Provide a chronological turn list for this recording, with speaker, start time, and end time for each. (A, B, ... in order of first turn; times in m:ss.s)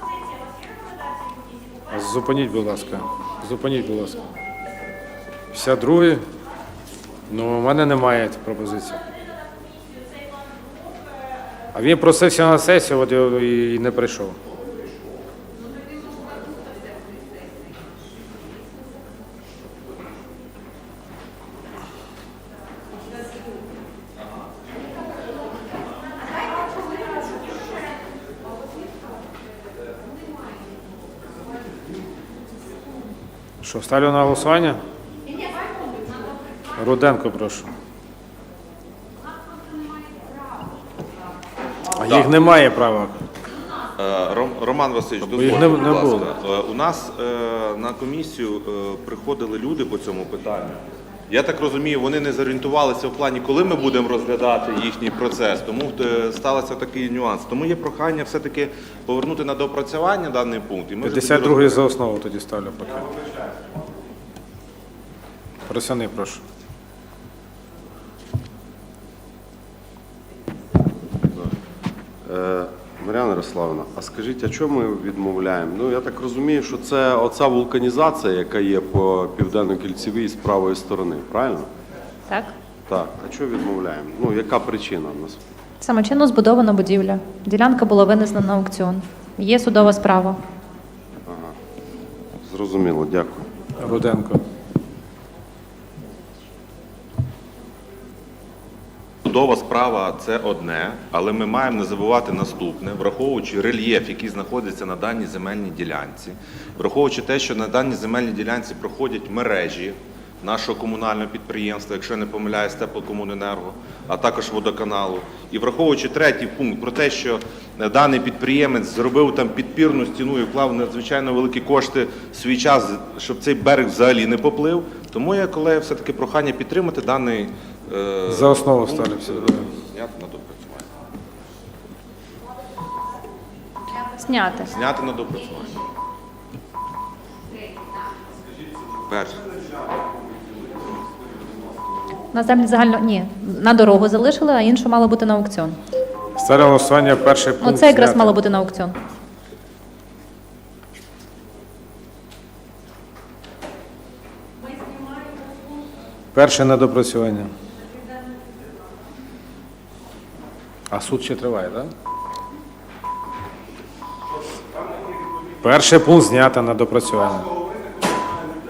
0:01.9-0:04.2 A
0:05.5-0:06.3 A
0:07.3-0:09.0 A
0:11.7-0:14.4 A
0:33.6-0:34.8 A
0:36.8-0:37.7 A
0:42.0-0:43.2 A
0:42.0-0:42.4 B
0:44.0-1:01.8 B
0:45.2-0:46.3 A
1:01.0-1:03.1 A
1:05.7-1:06.4 A
1:12.2-1:21.7 C
1:22.9-1:25.4 C
1:25.8-1:30.4 D
1:31.3-1:31.6 C
1:32.4-1:33.5 C
1:33.8-1:34.4 A
1:39.2-2:10.9 B
2:08.3-2:09.7 A
2:14.2-2:14.7 D
2:14.7-2:15.8 B
2:19.1-2:19.4 B
2:22.3-2:25.8 D
2:26.4-2:28.4 A
2:27.6-2:29.0 D
2:36.3-2:37.5 A
2:40.9-2:41.9 A
2:45.6-2:47.5 A